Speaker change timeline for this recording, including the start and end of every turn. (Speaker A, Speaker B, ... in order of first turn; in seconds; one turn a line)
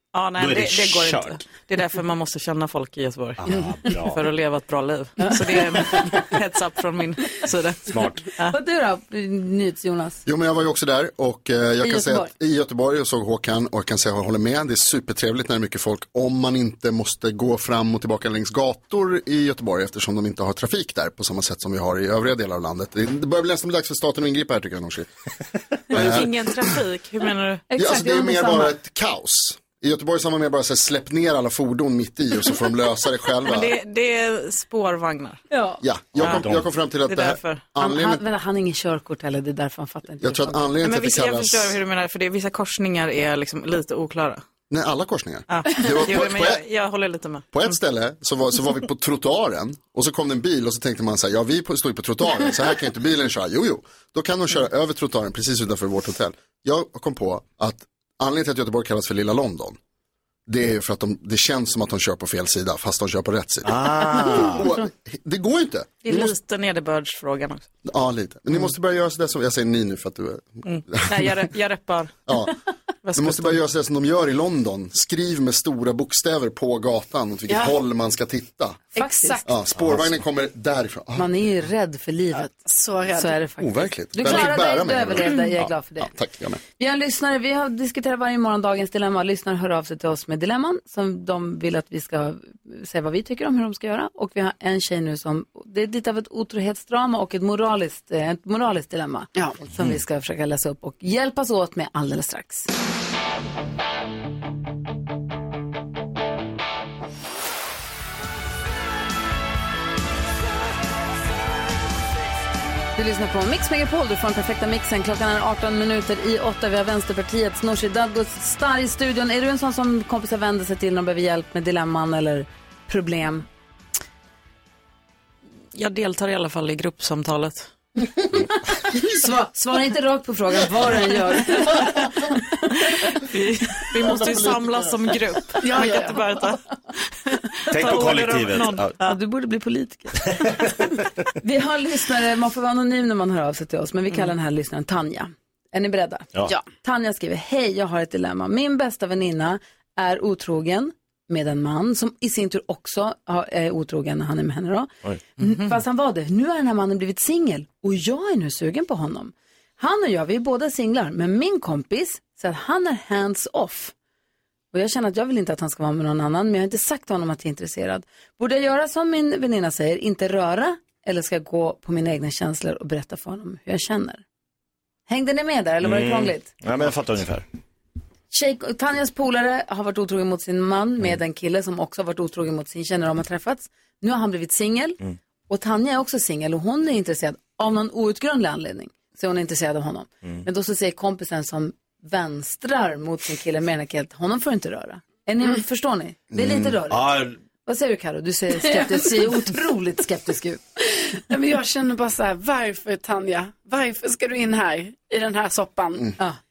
Speaker A: 0.1-8.6
Speaker B: 0.4-1.4
Speaker B: 3.4-4.2
Speaker B: 7.9-8.2
Speaker C: 8.5-10.2
Speaker D: 10.3-25.1
Speaker C: 11.8-12.3
Speaker D: 25.9-26.7
Speaker A: 25.9-27.7
Speaker C: 27.7-28.8
Speaker D: 27.8-33.8
Speaker A: 33.4-35.4
Speaker C: 35.5-35.8
Speaker D: 35.8-38.2
Speaker B: 36.2-36.7
Speaker A: 37.1-37.7
Speaker C: 37.8-40.7
Speaker D: 40.2-41.8
Speaker A: 40.8-44.4
Speaker D: 44.7-46.6
Speaker A: 45.5-47.7
Speaker D: 47.5-59.8
Speaker D: 60.5-66.3
Speaker B: 63.6-64.7
Speaker A: 66.0-67.7
Speaker D: 67.8-71.4
Speaker A: 70.7-72.2
Speaker D: 72.3-72.5
Speaker A: 73.0-73.6
Speaker D: 73.2-78.9
Speaker E: 77.5-77.8
Speaker E: 78.9-79.5
Speaker C: 79.0-79.4
Speaker D: 79.5-81.3
Speaker C: 81.2-82.5
Speaker E: 82.5-83.4
Speaker C: 83.2-86.1
Speaker D: 83.6-86.6
Speaker C: 86.8-102.7
Speaker C: 113.0-123.5
Speaker A: 125.7-127.7
Speaker C: 128.3-133.1
Speaker A: 133.2-136.6
Speaker E: 135.6-136.2
Speaker A: 137.3-139.2
Speaker B: 137.7-139.0
Speaker C: 139.0-140.3
Speaker B: 140.3-140.5
Speaker C: 141.4-146.3
Speaker C: 146.8-163.9
Speaker C: 164.7-174.2
Speaker C: 175.1-176.5
Speaker B: 175.8-177.4
Speaker C: 178.3-197.0
Speaker D: 196.3-196.7
Speaker B: 196.9-197.4
Speaker C: 197.7-200.6
Speaker E: 201.2-206.1